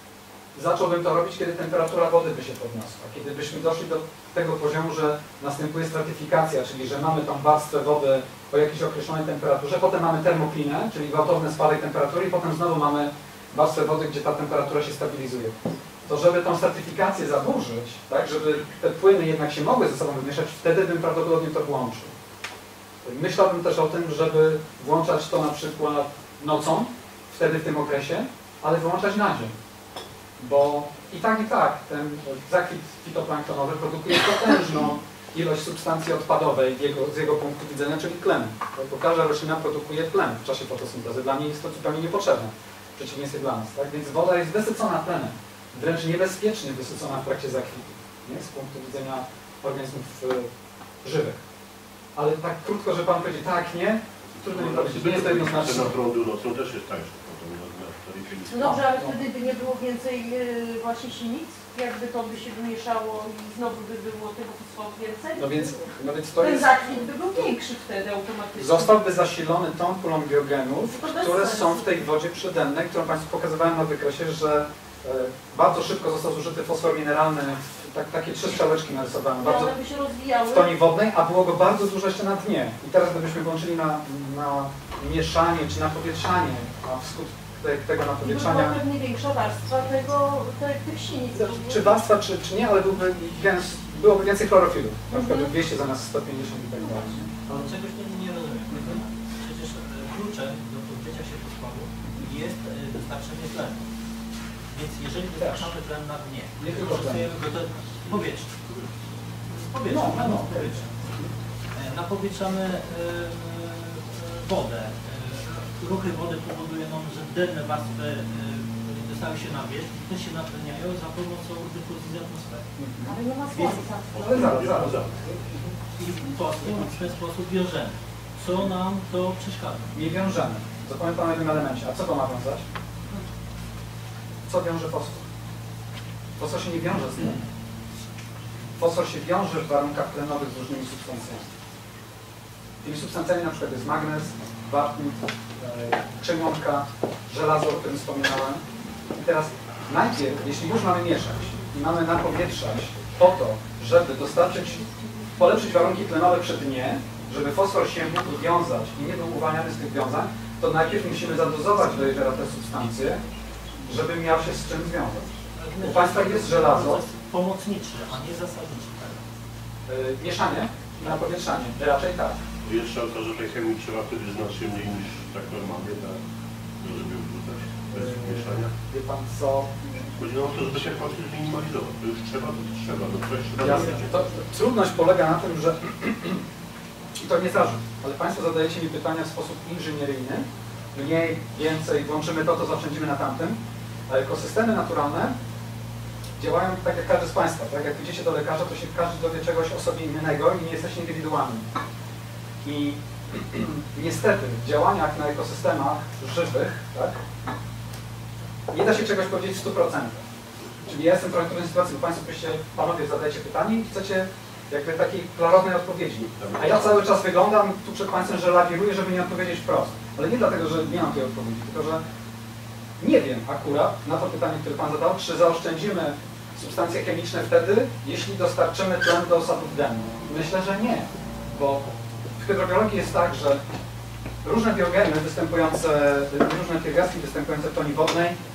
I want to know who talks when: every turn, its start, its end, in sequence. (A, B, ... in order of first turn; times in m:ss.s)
0:00.5-0:22.1 A
0:23.0-0:29.6 A
0:30.4-0:50.5 A
0:51.0-0:51.4 A
0:52.2-0:55.9 A
0:54.3-0:58.9 B
0:58.5-1:08.9 C
0:58.6-0:59.2 A
1:05.4-1:06.7 A
1:08.6-1:19.7 A
1:10.9-1:11.8 C
1:19.4-1:20.7 C
1:20.4-1:28.8 A
1:28.2-1:31.9 C
1:31.3-1:37.3 A
1:35.1-1:35.5 C
1:37.4-1:43.8 D
1:38.7-1:39.0 A
1:44.7-1:48.6 D
1:45.4-1:45.7 A
1:46.6-1:47.3 A
1:49.5-1:51.0 D
1:49.9-1:51.3 A
1:51.7-2:02.6 D
2:02.8-2:03.2 A
2:03.0-2:04.2 C
2:03.5-2:03.8 D
2:04.1-2:05.2 B
2:04.2-2:05.6 A
2:05.9-2:09.9 D
2:09.9-2:12.6 A
2:14.4-2:15.2 A
2:16.4-2:17.4 A
2:18.8-2:21.5 A
2:22.8-2:28.6 A
2:29.1-2:43.2 A
2:43.8-2:47.0 A
2:45.6-2:49.3 D
2:49.9-2:52.4 A
2:52.6-2:56.2 B
2:56.8-2:58.7 B
2:57.9-3:00.2 A
3:00.2-3:04.1 B
3:03.6-3:06.4 A
3:07.2-3:15.3 A
3:16.4-3:21.7 A
3:22.6-3:27.2 A
3:28.7-3:30.2 A
3:30.8-3:42.0 A
3:36.2-3:37.0 B
3:43.0-3:53.6 A
3:54.4-3:58.4 A